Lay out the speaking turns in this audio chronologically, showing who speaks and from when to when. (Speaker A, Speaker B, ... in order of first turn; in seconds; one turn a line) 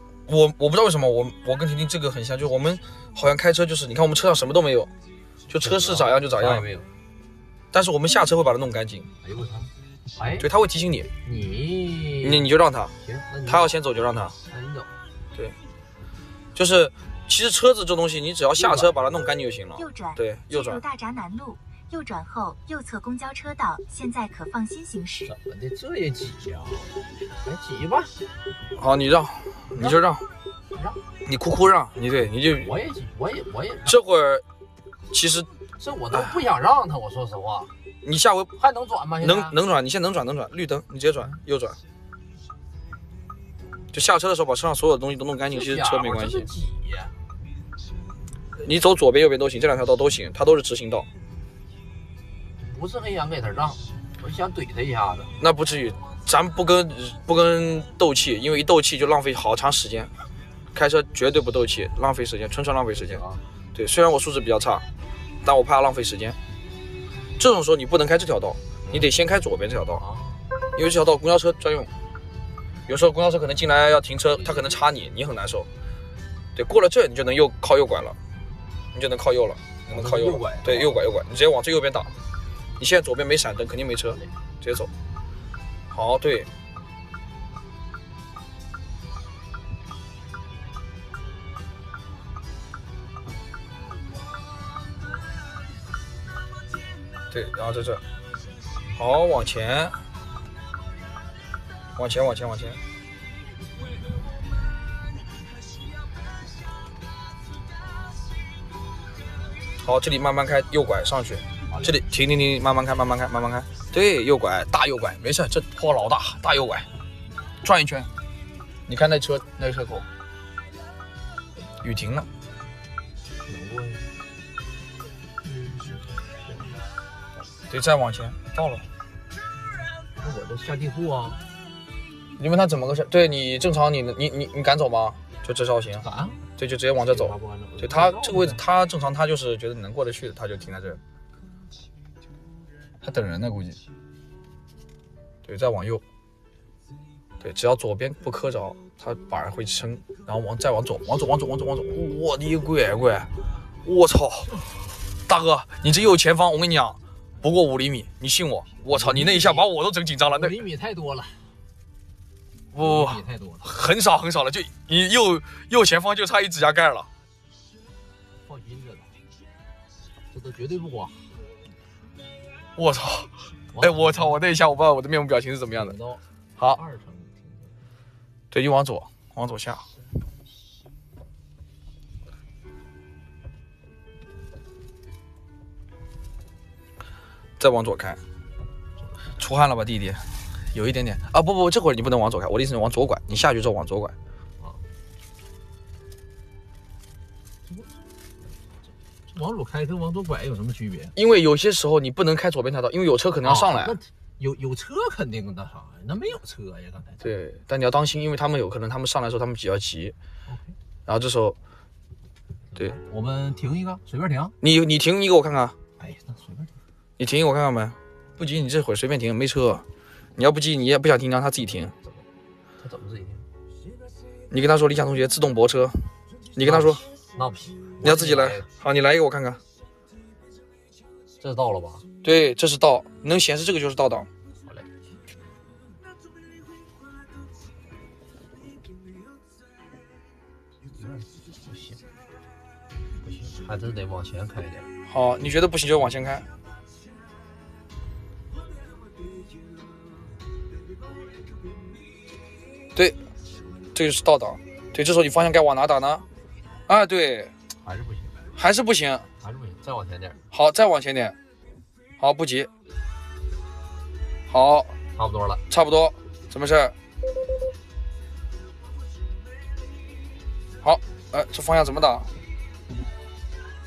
Speaker A: 0.3-4.9
Speaker A: 5.5-6.7
Speaker B: 5.6-6.9
Speaker A: 7.7-9.1
Speaker B: 9.2-10.5
Speaker A: 10.4-11.1
Speaker B: 11.2-12.5
Speaker A: 12.2-12.9
Speaker B: 13.0-14.9
Speaker A: 13.5-14.3
Speaker A: 16.6-20.8
Speaker B: 18.6-19.2
Speaker C: 19.8-25.3
Speaker B: 25.3-28.1
Speaker A: 28.8-30.2
Speaker B: 30.7-31.0
Speaker A: 31.2-32.7
Speaker B: 32.5-34.0
Speaker A: 33.9-34.4
Speaker A: 35.1-35.5
Speaker B: 35.8-37.7
Speaker A: 36.1-36.4
Speaker A: 38.0-38.5
Speaker B: 38.5-39.5
Speaker A: 39.2-41.8
Speaker A: 43.9-46.5
Speaker B: 45.5-47.1
Speaker A: 48.6-51.1
Speaker B: 52.6-55.3
Speaker A: 55.4-60.1
Speaker A: 60.7-63.2
Speaker B: 62.9-63.4
Speaker A: 63.7-64.8
Speaker A: 65.4-66.4
Speaker A: 67.4-70.0
Speaker B: 68.9-69.1
Speaker B: 70.0-70.5
Speaker A: 70.8-71.9
Speaker A: 72.9-75.7
Speaker B: 74.3-74.8
Speaker A: 76.5-78.2
Speaker A: 78.9-82.1
Speaker B: 79.9-81.1
Speaker A: 82.8-84.9
Speaker A: 85.9-86.5
Speaker A: 97.3-98.0
Speaker A: 98.9-100.0
Speaker A: 102.0-102.8
Speaker A: 109.8-116.9
Speaker B: 111.7-112.0
Speaker A: 117.6-118.1
Speaker A: 118.9-120.1
Speaker A: 121.8-122.3
Speaker B: 123.4-124.1
Speaker B: 125.5-126.8
Speaker A: 127.7-128.8
Speaker B: 130.2-131.4
Speaker A: 132.4-136.1
Speaker B: 136.0-136.5
Speaker A: 136.6-141.0
Speaker B: 137.0-138.6
Speaker A: 143.0-143.8
Speaker A: 145.4-146.0
Speaker A: 147.4-153.3
Speaker A: 153.8-154.5
Speaker A: 155.3-160.6
Speaker B: 158.9-159.7
Speaker B: 160.2-161.6
Speaker A: 162.7-167.1
Speaker B: 162.8-163.8
Speaker B: 168.4-169.2
Speaker B: 170.3-171.3
Speaker A: 172.8-175.9
Speaker B: 173.7-174.3
Speaker B: 175.7-177.8
Speaker A: 178.5-179.8
Speaker A: 187.6-188.2
Speaker A: 189.4-194.1
Speaker B: 197.7-198.0
Speaker B: 199.3-201.1
Speaker A: 201.2-204.0
Speaker B: 203.4-207.3
Speaker A: 207.2-210.1
Speaker B: 210.5-210.8
Speaker A: 211.1-211.6
Speaker B: 212.7-214.6
Speaker A: 214.6-215.7
Speaker B: 216.0-216.7
Speaker A: 217.2-219.8
Speaker A: 220.4-221.9
Speaker B: 221.6-222.2
Speaker B: 222.8-223.4
Speaker A: 224.5-226.0
Speaker A: 226.5-227.0
Speaker B: 226.6-228.7
Speaker A: 228.0-229.6
Speaker B: 231.4-232.1
Speaker A: 232.2-234.3
Speaker B: 240.9-242.1
Speaker B: 243.2-244.9
Speaker A: 245.1-246.5
Speaker A: 253.9-256.2
Speaker A: 256.9-257.5
Speaker B: 257.8-258.5
Speaker A: 258.6-259.3
Speaker B: 259.4-260.4
Speaker A: 260.5-261.4
Speaker A: 262.2-262.7
Speaker A: 264.5-264.9
Speaker B: 265.1-265.6
Speaker A: 265.7-266.9
Speaker A: 270.8-272.3